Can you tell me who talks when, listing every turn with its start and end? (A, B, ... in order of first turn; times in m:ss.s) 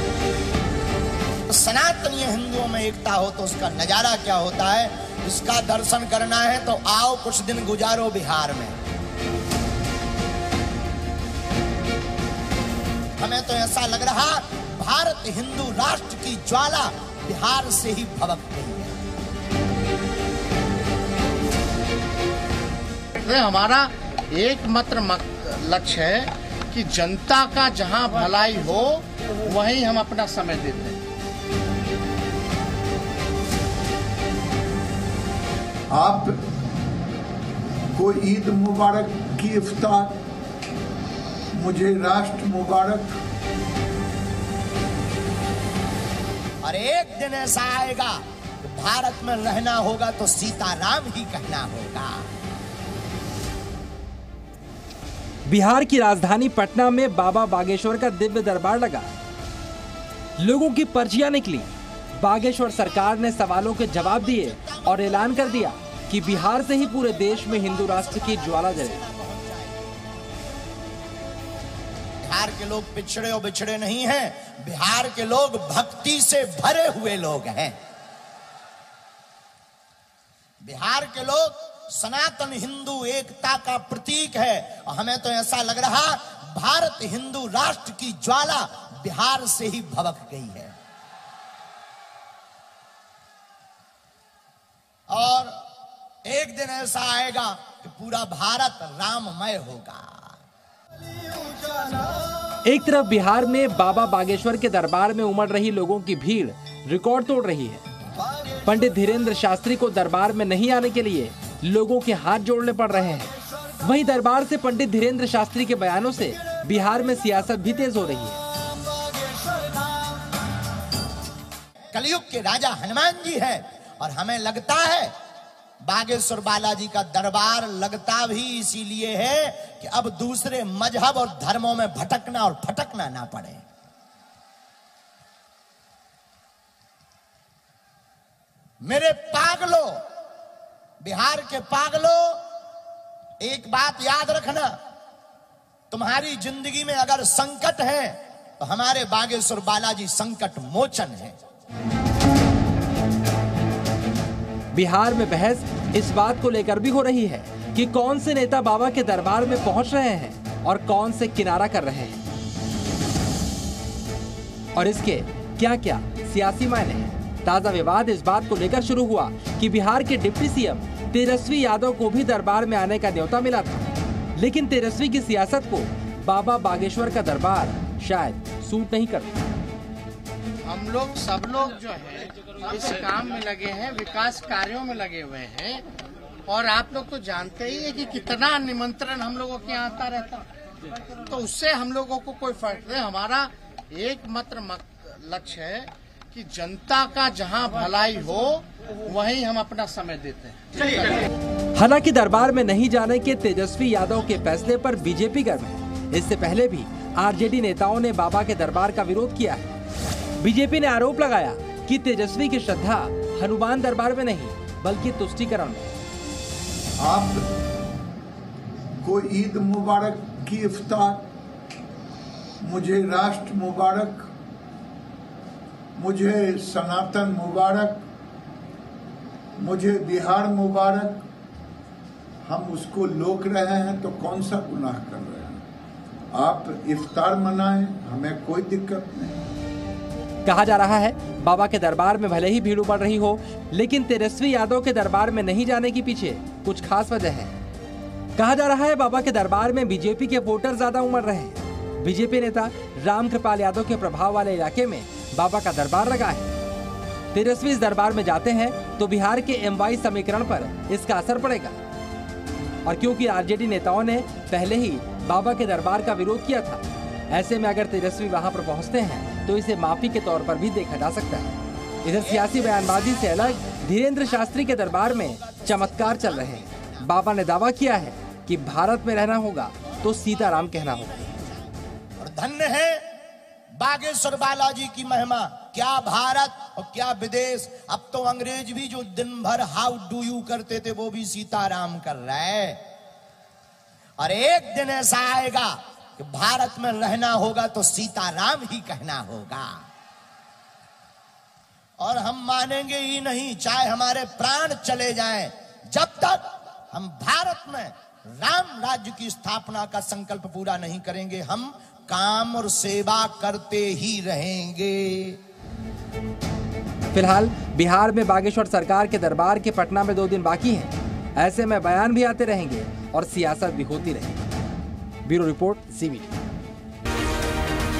0:01.5-0:08.8 A
0:13.2-0:19.0 A
0:23.1-0:31.0 B
0:35.9-0:36.4 C
0:37.9-0:40.2 C
0:41.5-0:43.2 C
0:46.6-0:52.2 A
0:55.5-0:59.1 D
1:00.4-1:09.0 D
1:03.9-1:09.9 A
1:12.2-1:17.8 A
1:20.6-1:30.7 A
1:35.1-1:35.5 A
1:36.2-1:40.4 A
1:42.6-1:47.8 D
1:48.6-1:58.4 D
2:01.9-2:05.1 A
2:05.8-2:13.6 A
2:18.8-2:20.0 A
2:21.0-2:22.4 A
2:23.4-2:24.7 A
2:25.9-2:31.4 A
2:34.7-2:42.2 D
2:44.7-2:59.4 D
3:00.6-3:05.8 B
3:06.5-3:10.5 B
3:11.2-3:21.3 B
3:21.7-3:29.7 D
3:30.4-3:35.9 D
3:37.0-3:37.5 C
3:39.0-3:41.3 C
3:42.6-3:44.3 C
3:46.0-3:48.0 C
3:49.6-3:51.2 C
3:52.4-3:55.6 C
3:56.3-3:59.4 C
4:00.4-4:07.5 D
4:08.4-4:16.5 D
4:17.3-4:21.8 D
4:22.8-4:41.1 D
4:32.1-4:37.1 A
4:40.7-4:41.4 A
4:42.2-4:43.0 A
4:43.8-4:52.8 A
4:54.2-4:59.7 A
5:02.0-5:15.4 A
5:17.1-5:24.4 D
5:25.2-5:26.3 D